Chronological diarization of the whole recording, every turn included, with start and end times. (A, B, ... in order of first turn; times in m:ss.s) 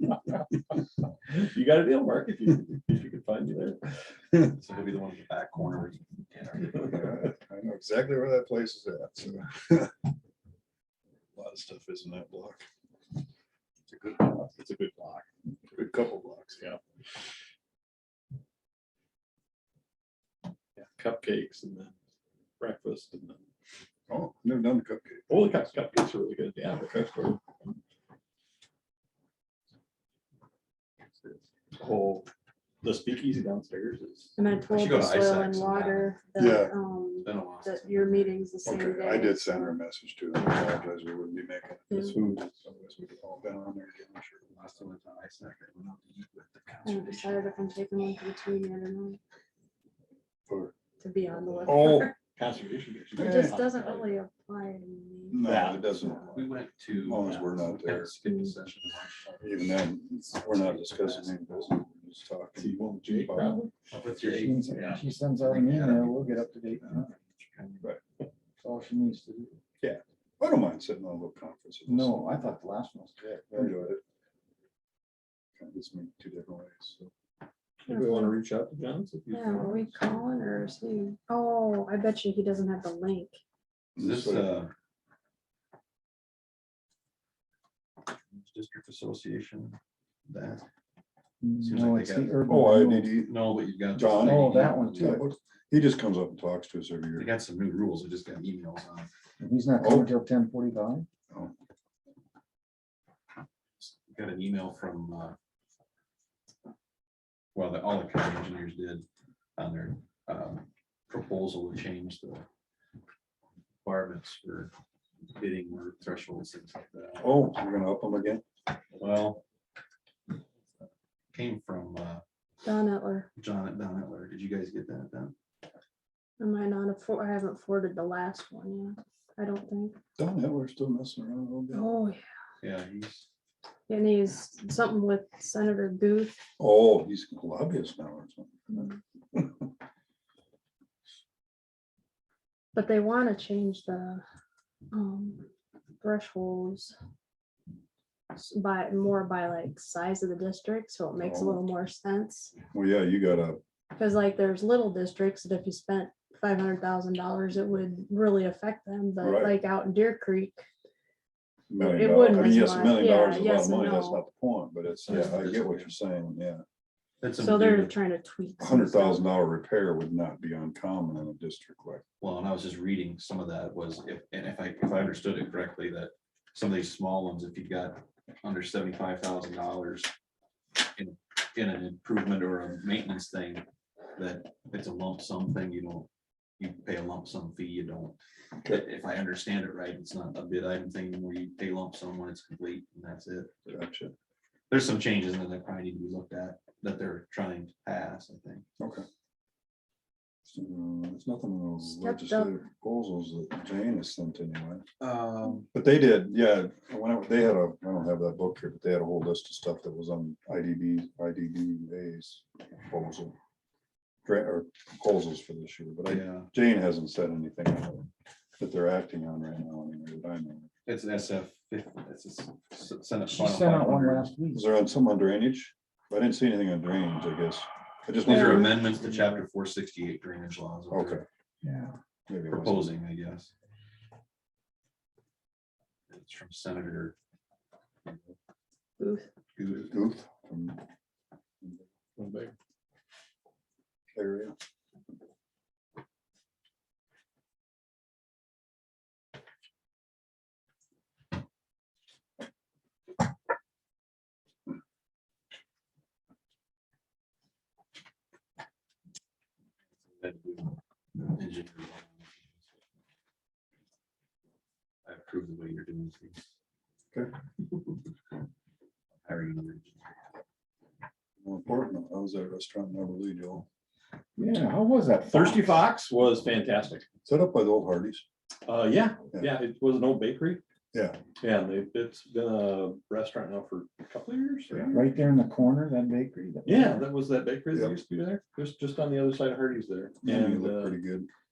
0:01.3-0:03.9 A
0:04.4-0:07.1 B
0:06.8-0:09.9 C
0:11.4-0:12.6 C
0:14.0-0:14.4 C
0:14.5-0:15.3 A
0:15.7-0:16.8 C
0:20.8-0:21.9 A
0:22.6-0:23.4 A
0:24.1-0:25.6 C
0:25.3-0:27.4 A
0:31.7-0:32.3 A
0:32.8-0:34.3 A
0:34.4-0:39.8 D
0:34.7-0:36.2 B
0:36.4-0:36.7 C
0:37.2-0:38.3 B
0:38.6-0:44.4 C
0:44.5-0:47.7 B
0:46.8-0:49.2 D
0:50.5-0:50.7 C
0:51.0-0:52.2 D
0:51.4-0:51.8 B
0:51.6-0:52.1 C
0:52.4-0:54.2 A
0:53.2-0:53.5 C
0:53.2-0:56.3 D
0:55.3-0:56.5 C
0:55.4-0:55.8 A
0:56.3-0:59.6 B
0:57.0-0:58.2 C
0:59.4-1:03.6 C
1:00.3-1:01.7 B
1:02.6-1:03.5 A
1:03.9-1:07.9 B
1:04.2-1:07.2 E
1:08.6-1:09.6 E
1:09.8-1:12.5 C
1:11.9-1:13.9 E
1:13.5-1:14.0 C
1:15.6-1:17.1 C
1:17.8-1:20.3 A
1:17.9-1:18.4 D
1:19.3-1:23.4 D
1:24.0-1:24.5 C
1:24.0-1:24.7 B
1:28.3-1:29.8 B
1:30.3-1:30.6 B
1:31.4-1:33.2 E
1:31.6-1:32.4 B
1:32.4-1:33.4 C
1:33.2-1:35.2 B
1:33.9-1:37.3 C
1:34.1-1:35.3 E
1:37.1-1:39.1 B
1:39.4-1:41.0 E
1:39.8-1:40.1 C
1:43.8-1:45.3 B
1:47.5-1:49.0 B
1:49.6-1:52.4 B
1:53.8-1:54.7 B
1:55.3-1:57.4 B
1:57.2-1:58.4 C
1:58.9-1:59.4 B
2:00.8-2:02.2 B
2:02.6-2:03.3 D
2:03.4-2:05.3 B
2:06.4-2:10.0 D
2:10.2-2:11.9 C
2:11.7-2:12.2 D
2:12.6-2:13.3 B
2:13.9-2:16.4 D
2:16.6-2:19.7 C
2:22.7-2:24.2 D
2:24.9-2:25.5 D
2:26.0-2:27.0 D
2:28.3-2:32.6 D
2:31.2-2:31.6 C
2:32.7-2:33.6 C
2:33.9-2:40.6 D
2:39.2-2:39.6 C
2:41.7-2:46.6 C
2:41.8-2:44.2 D
2:45.0-2:45.9 B
2:47.2-2:47.9 B
2:47.3-2:49.2 D
2:48.6-2:52.0 C
2:52.2-3:00.1 B
3:00.9-3:03.6 B
3:04.2-3:13.5 B
3:13.6-3:14.1 C
3:14.7-3:18.6 B
3:18.8-3:19.0 C
3:20.5-3:24.8 C
3:21.8-3:22.5 D
3:25.0-3:25.7 B
3:25.7-3:33.3 C
3:34.2-3:40.7 C
3:36.1-3:36.5 B
3:40.8-3:44.3 B
3:43.3-3:44.7 E
3:44.5-3:48.8 C
3:48.2-3:51.2 B
3:50.9-3:51.2 C
3:51.6-3:51.9 E
3:52.3-3:53.0 C
3:52.5-3:53.5 B
3:56.1-3:57.1 B
3:58.0-3:58.3 B
3:59.0-3:59.3 D
3:59.6-4:00.0 B
3:59.8-4:00.8 C
4:01.6-4:01.9 C
4:02.2-4:02.5 A
4:04.1-4:04.5 C
4:20.0-4:22.4 B
4:25.0-4:26.4 B
4:29.2-4:30.2 B
4:31.4-4:33.6 C
4:34.4-4:35.8 E
4:35.3-4:37.1 A
4:37.2-4:38.2 C
4:38.6-4:40.6 A
4:40.9-4:41.2 C
4:41.4-4:45.0 A
4:44.9-4:47.0 E
4:46.6-4:51.0 A
4:50.2-4:51.3 C